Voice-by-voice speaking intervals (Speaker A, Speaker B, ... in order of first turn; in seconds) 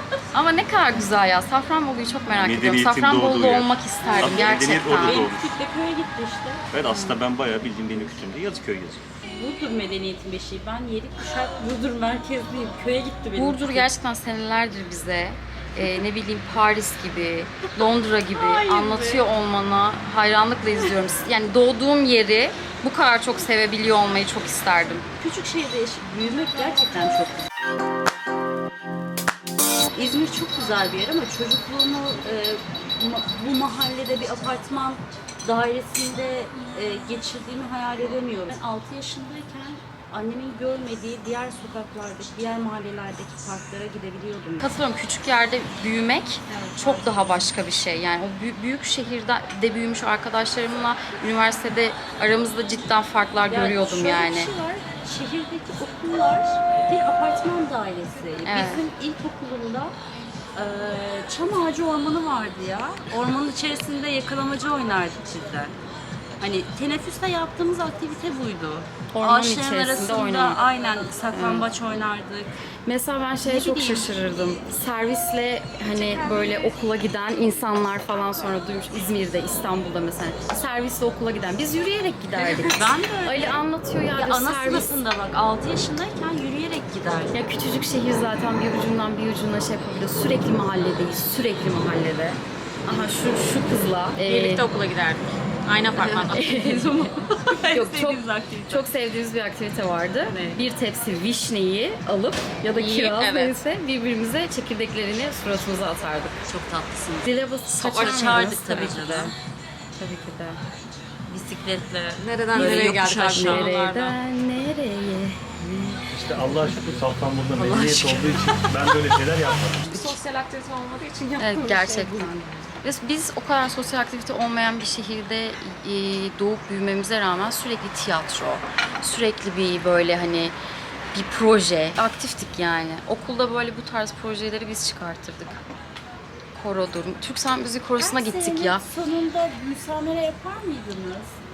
Speaker A: 0.3-5.2, 13.3-25.1, 44.6-54.5, 58.4-58.9, 69.1-70.6, 71.3-71.7, 72.9-85.0, 87.3-94.7, 96.0-106.4, 107.2-109.3, 110.0-110.6, 112.6-116.0, 121.4-130.5, 131.1-135.6, 136.5-138.8
Speaker B: 2.3-5.6, 6.7-9.1, 116.1-120.1
Speaker C: 4.1-7.2, 9.2-13.9, 18.3-19.2, 25.2-27.5, 29.9-44.7, 53.5-60.0, 60.5-65.8, 66.4-72.5, 73.4-74.1, 75.9-76.8, 82.3-83.6, 84.1-87.4, 94.2-98.9, 100.3-100.6, 102.7-103.5, 106.5-107.3, 107.8-109.3, 111.3-114.1, 138.0-141.4
Speaker D: 112.2-114.1, 119.9-122.3